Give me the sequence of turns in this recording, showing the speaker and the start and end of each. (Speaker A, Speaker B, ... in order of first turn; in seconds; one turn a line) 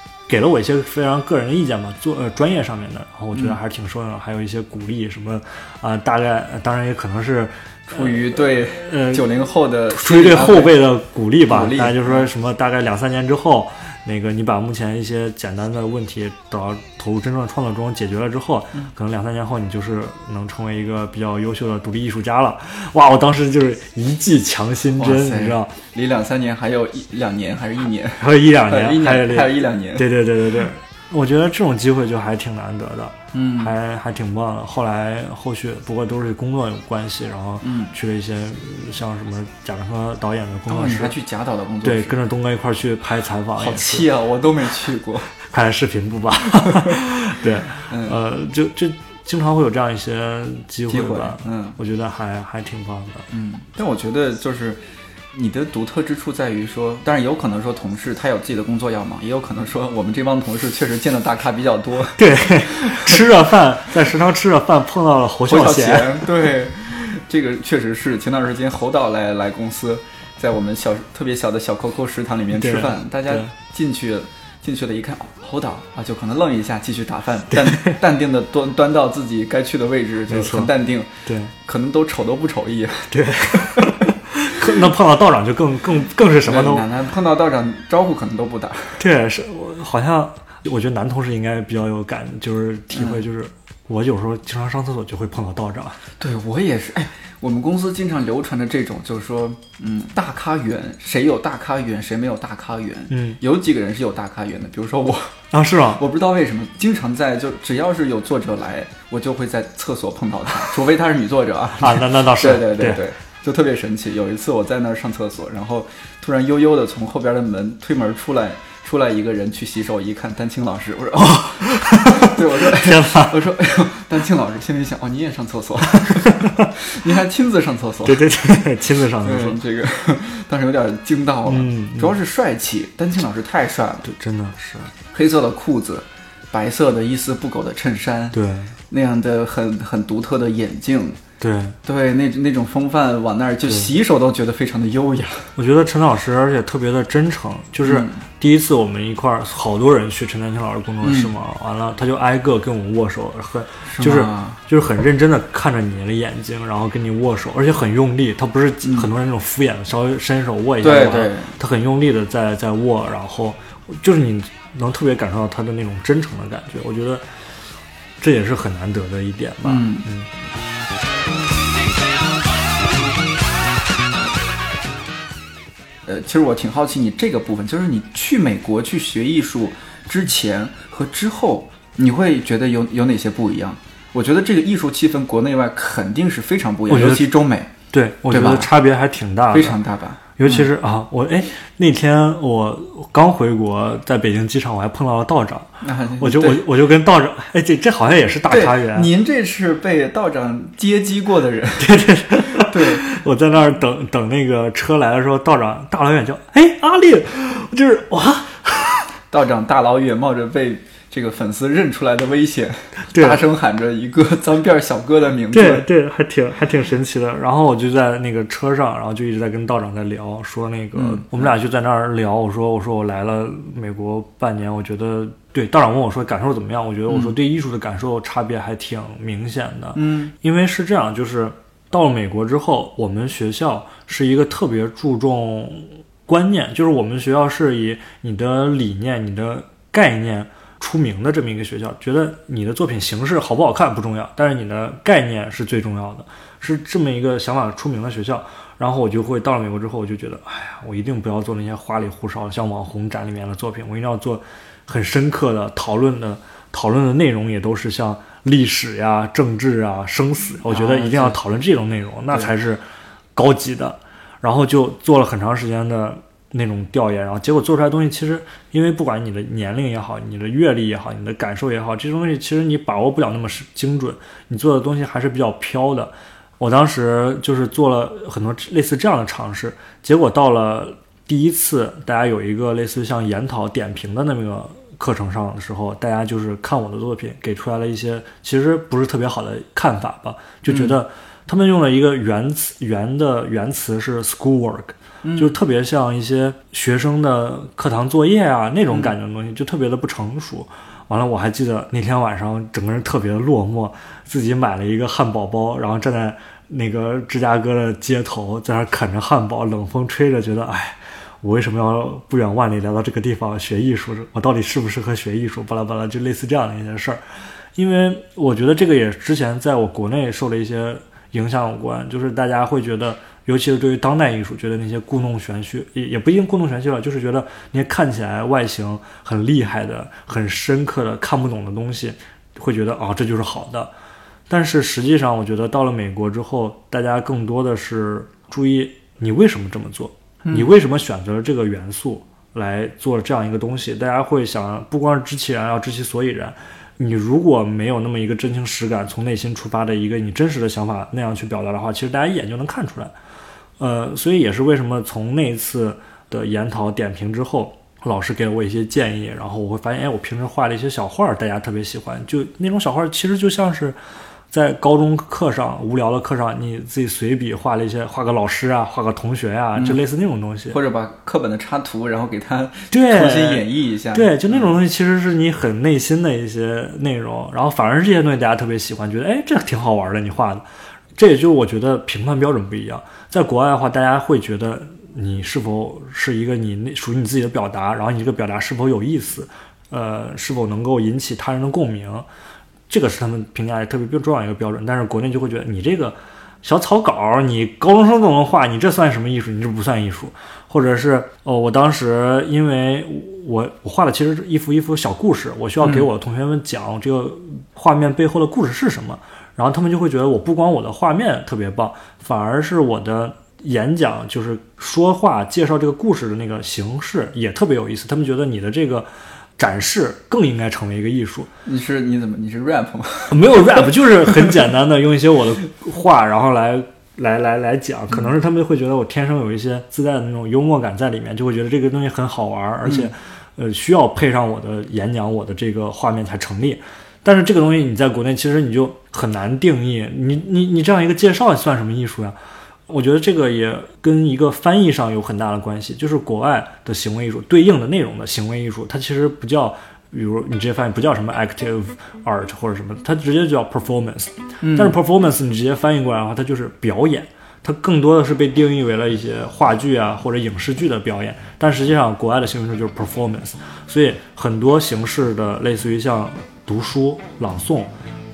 Speaker A: 0.3-9.3
Speaker B: 7.9-10.8
Speaker A: 9.9-25.7
Speaker B: 11.5-12.3
Speaker B: 24.9-30.1
Speaker A: 28.2-41.1
Speaker B: 33.3-33.7
Speaker B: 37.6-37.9
Speaker B: 40.7-42.2
Speaker A: 41.8-44.1
Speaker B: 43.6-45.3
Speaker A: 45.4-53.3
Speaker B: 46.6-47.0
Speaker B: 47.9-48.2
Speaker B: 50.9-51.8
Speaker B: 53.3-63.2
Speaker A: 62.2-66.3
Speaker B: 65.5-84.1
Speaker A: 72.5-73.5
Speaker A: 77.5-78.0
Speaker A: 80.3-80.7
Speaker A: 81.2-81.5
Speaker A: 83.1-86.9
Speaker B: 86.4-89.0
Speaker A: 89.0-96.0
Speaker B: 92.9-93.2
Speaker B: 96.2-105.3
Speaker A: 103.1-103.4
Speaker A: 105.5-106.0
Speaker B: 105.9-128.2
Speaker A: 111.8-113.0
Speaker A: 121.2-123.4
Speaker A: 126.0-126.7
Speaker A: 128.0-129.6
Speaker B: 129.2-134.1
Speaker A: 131.4-132.2
Speaker A: 134.0-134.9
Speaker B: 135.1-138.4
Speaker A: 138.3-138.8
Speaker B: 138.9-141.2
Speaker A: 141.4-141.8
Speaker B: 141.8-145.5
Speaker A: 145.6-167.2
Speaker B: 147.8-148.2
Speaker B: 151.0-151.3
Speaker B: 153.9-154.6
Speaker B: 158.8-159.1
Speaker B: 160.8-161.5
Speaker A: 168.2-170.3
Speaker B: 169.6-170.1
Speaker B: 176.1-187.7
Speaker A: 186.9-187.3
Speaker A: 187.9-189.8
Speaker B: 188.3-188.7
Speaker B: 189.5-190.7
Speaker A: 190.4-199.1
Speaker B: 195.8-196.6
Speaker B: 198.5-201.9
Speaker A: 201.8-209.1
Speaker B: 202.5-203.1
Speaker B: 209.3-215.9
Speaker A: 213.1-213.4
Speaker A: 215.5-262.8
Speaker B: 220.9-221.5
Speaker B: 227.1-227.3
Speaker B: 229.9-230.3
Speaker B: 260.6-261.4
Speaker A: 263.3-317.2
Speaker B: 290.7-290.9
Speaker B: 295.2-295.6
Speaker A: 317.7-333.9
Speaker A: 334.5-353.1
Speaker A: 353.8-363.9
Speaker A: 364.5-370.8
Speaker B: 370.7-374.7
Speaker A: 372.9-380.6
Speaker A: 381.2-392.2
Speaker A: 392.9-421.5
Speaker B: 405.8-406.1
Speaker B: 421.6-424.5
Speaker A: 423.3-442.4
Speaker B: 432.8-433.1
Speaker A: 442.9-467.9
Speaker B: 454.6-454.9